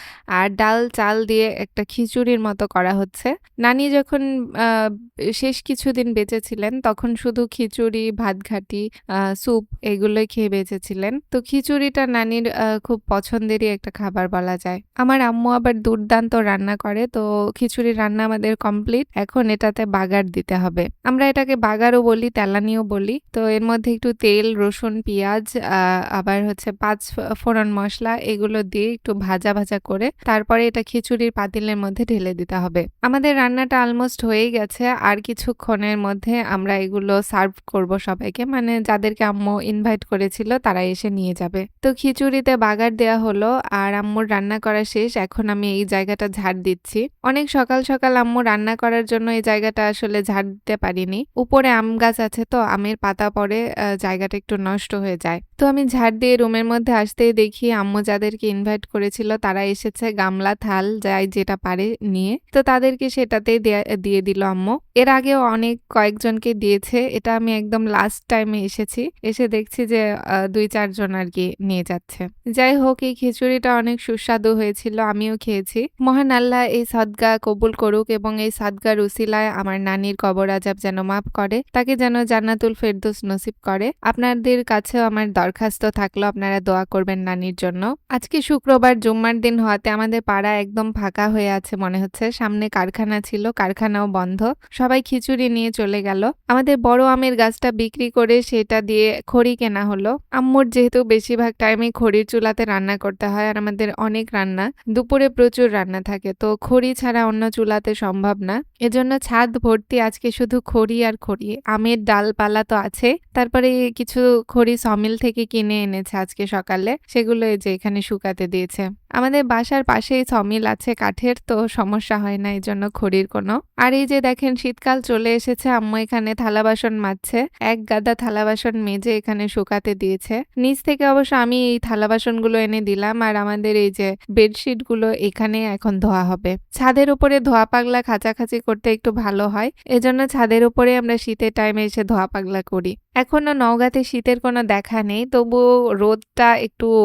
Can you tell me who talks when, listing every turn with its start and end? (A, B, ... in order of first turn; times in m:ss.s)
0:00.4-0:04.9 A
0:05.4-0:08.8 A
0:09.4-1:10.0 A
1:10.5-2:26.9 A